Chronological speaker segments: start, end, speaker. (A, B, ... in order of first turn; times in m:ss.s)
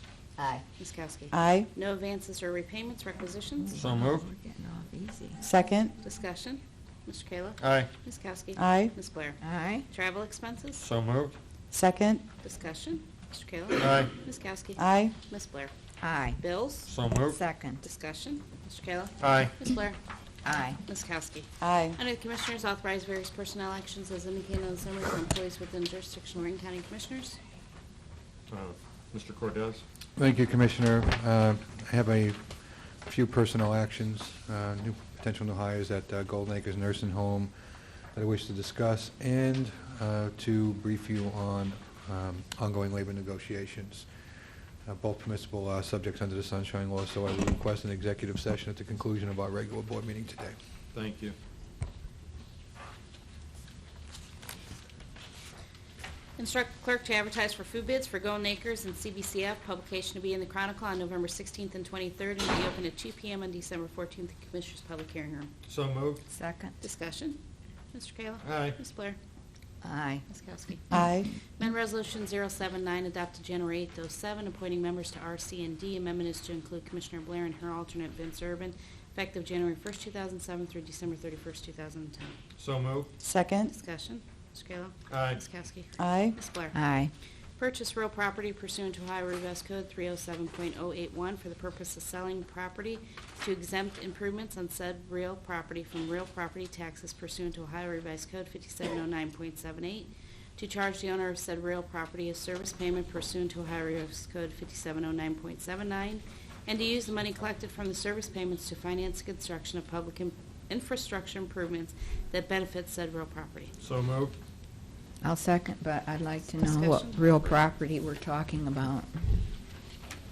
0:00.4-0:00.6 A
0:00.8-0:03.8 B
0:01.3-0:01.7 C
0:03.6-0:05.4 A
0:03.8-0:04.3 D
0:05.4-0:05.9 C
0:06.0-0:10.8 B
0:07.6-0:07.9 D
0:08.6-0:08.9 C
0:09.4-0:09.9 A
0:10.8-0:11.4 D
0:11.7-0:12.2 C
0:12.4-0:15.7 B
0:13.8-0:14.1 D
0:14.8-0:15.1 C
0:16.0-0:16.4 A
0:16.4-0:16.9 B
0:16.9-0:17.4 D
0:17.3-0:17.8 A
0:17.8-0:20.0 B
0:19.2-0:19.5 D
0:20.4-0:20.8 A
0:20.8-0:27.4 B
0:21.6-0:22.0 C
0:28.5-0:29.8 D
0:30.2-0:32.5 E
0:33.0-0:37.5 E
0:38.1-0:44.1 E
0:44.8-0:50.6 E
0:50.9-0:51.4 D
0:56.4-1:05.5 B
1:05.7-1:06.2 D
1:06.3-1:06.8 A
1:06.8-1:07.4 B
1:07.9-1:09.2 B
1:08.4-1:08.8 D
1:09.8-1:10.2 A
1:10.3-1:11.0 B
1:10.9-1:11.3 C
1:11.6-1:22.4 B
1:22.6-1:23.1 D
1:23.2-1:23.7 C
1:23.6-1:26.8 B
1:25.1-1:25.4 D
1:26.0-1:26.4 C
1:26.7-1:27.1 A
1:27.6-1:53.7 B
1:53.8-1:54.4 D
1:55.2-1:59.2 A
1:56.6-1:57.6 B